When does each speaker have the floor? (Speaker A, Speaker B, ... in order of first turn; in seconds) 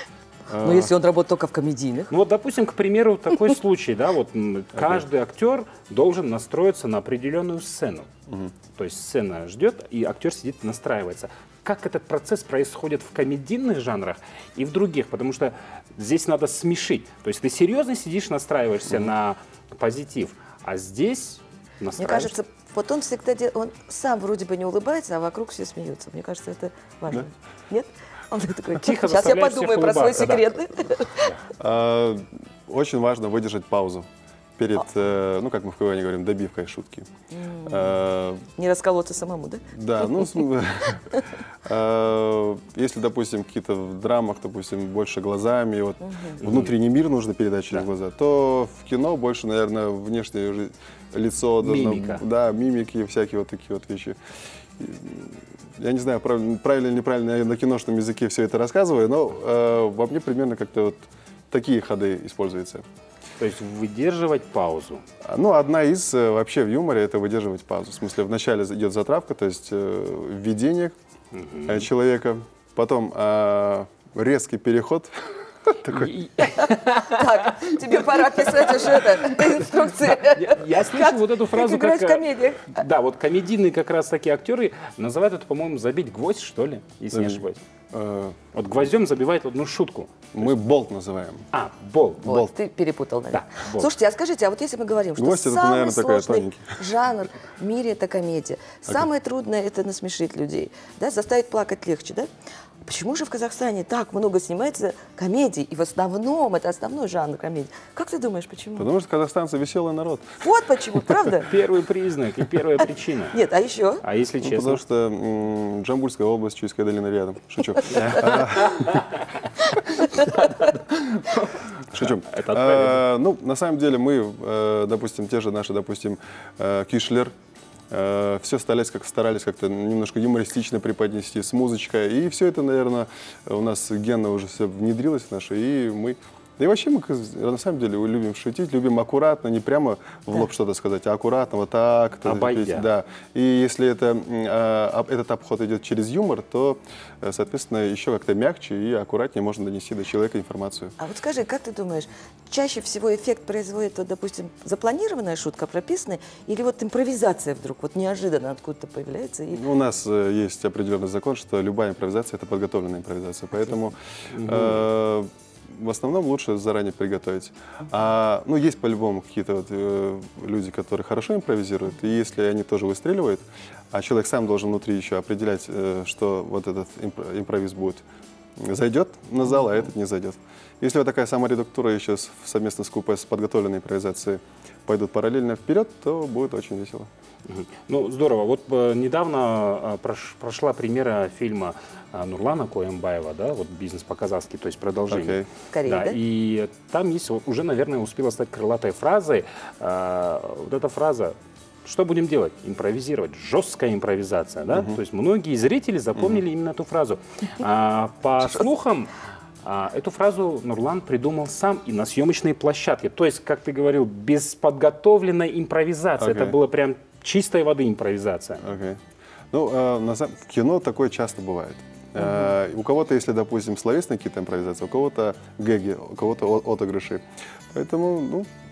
Speaker A: 0.5-0.9, 8.3-8.6, 31.6-37.1, 37.7-38.4, 39.7-41.0, 41.6-54.2, 54.8-62.9, 65.2-71.0, 71.7-76.1, 87.1-88.4, 90.3-91.5, 95.2-96.8, 108.8-110.3, 114.4-119.0, 121.9-127.3, 127.9-150.9, 159.6-178.0, 178.6-187.1, 195.1-195.5, 204.7-205.0, 206.2-206.4, 216.2-216.6, 218.6-219.0, 219.5-228.5
Speaker B: 0.6-2.1, 22.0-31.3, 37.3-38.0, 38.5-40.4, 46.0-46.4, 76.9-82.8, 92.2-102.3, 102.8-108.9, 110.4-111.5, 113.3-114.0, 151.0-159.6, 195.7-196.2
Speaker C: 2.1-8.1, 8.7-22.4, 28.8-30.5, 46.4-46.7, 51.6-52.2, 63.4-65.0, 71.3-71.9, 75.9-87.6, 88.5-90.5, 91.5-92.3, 93.3-93.9, 111.5-113.4, 114.0-114.8, 121.0-123.1, 142.2-142.9, 164.3-164.8, 187.5-218.6